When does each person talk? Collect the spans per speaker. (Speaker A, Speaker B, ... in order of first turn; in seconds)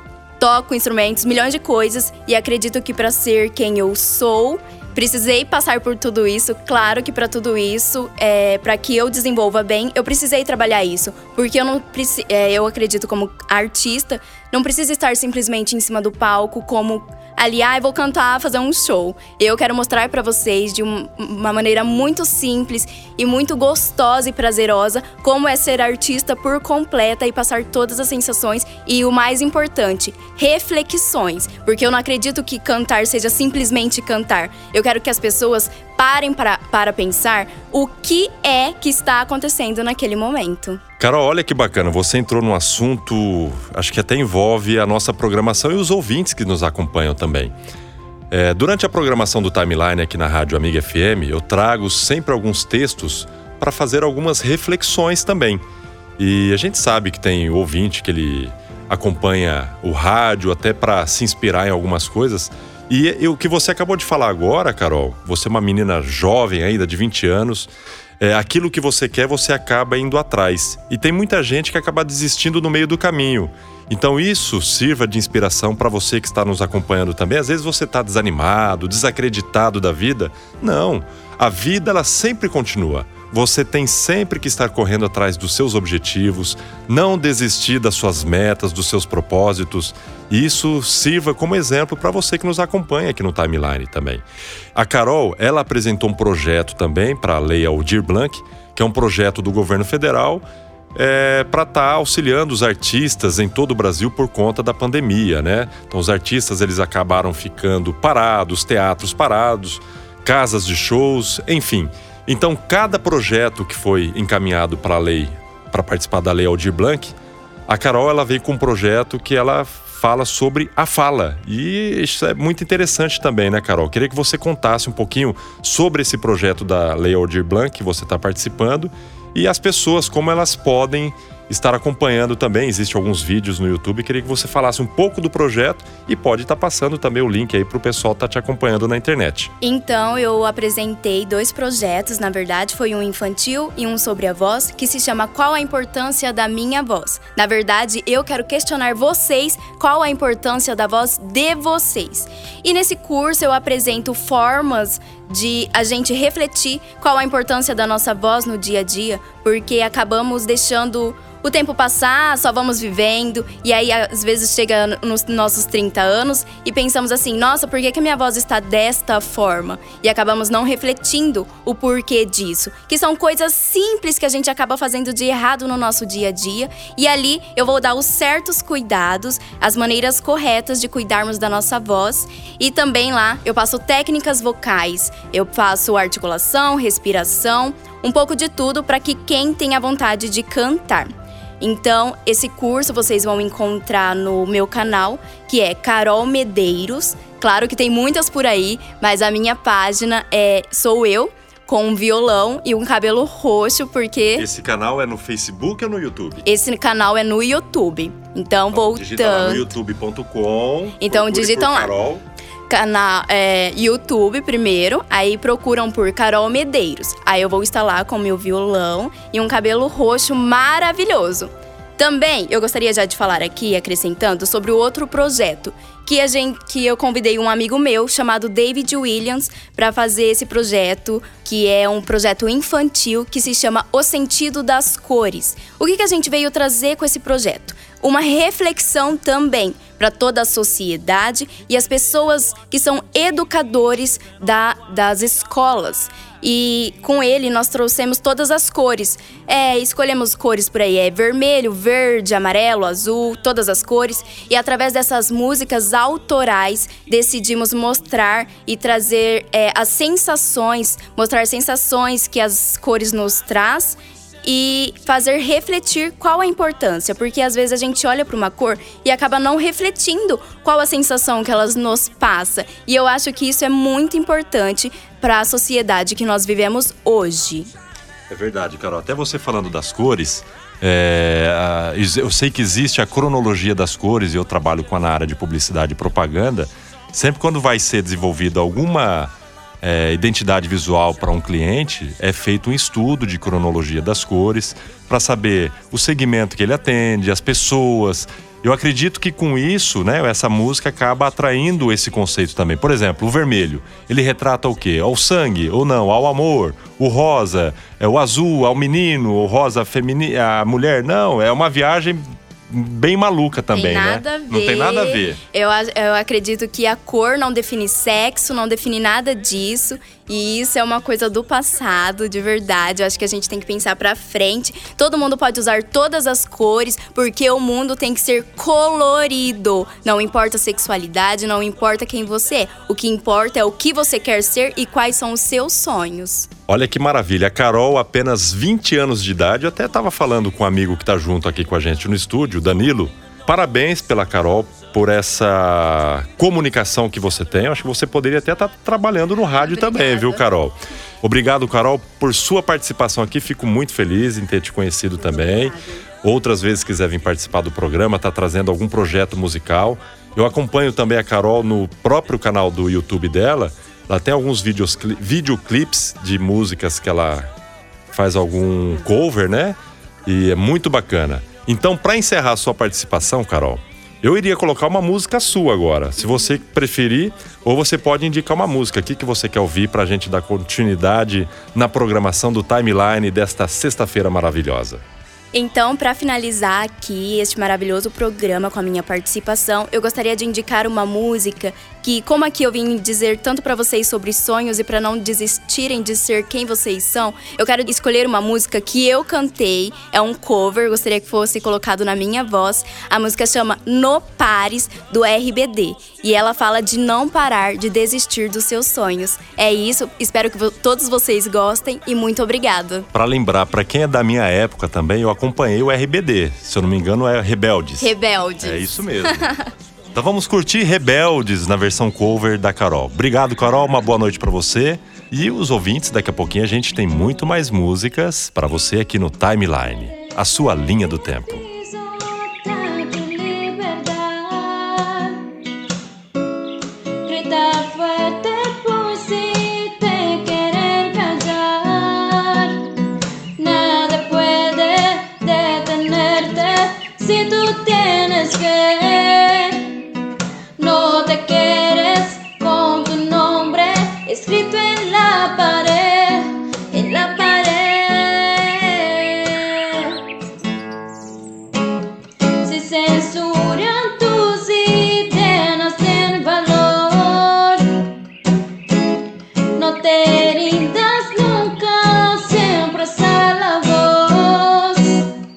Speaker A: 0.4-40.8, 139.6-191.1, 191.6-204.5, 206.4-209.7, 211.0-211.9, 212.7-277.7, 313.7-336.5, 349.6-350.4, 355.3-356.0, 385.5-413.1, 418.0-419.7
Speaker B: 41.0-47.5, 48.3-55.6, 56.2-94.2, 94.8-100.4, 101.0-117.2, 117.7-139.5, 204.4-206.4, 208.7-212.2, 278.3-315.4, 336.7-367.5, 368.1-385.0, 413.1-419.5, 420.1-431.7
Speaker C: 431.6-435.5, 437.2-443.0, 443.6-450.1, 450.8-460.2, 462.6-468.1, 469.8-475.3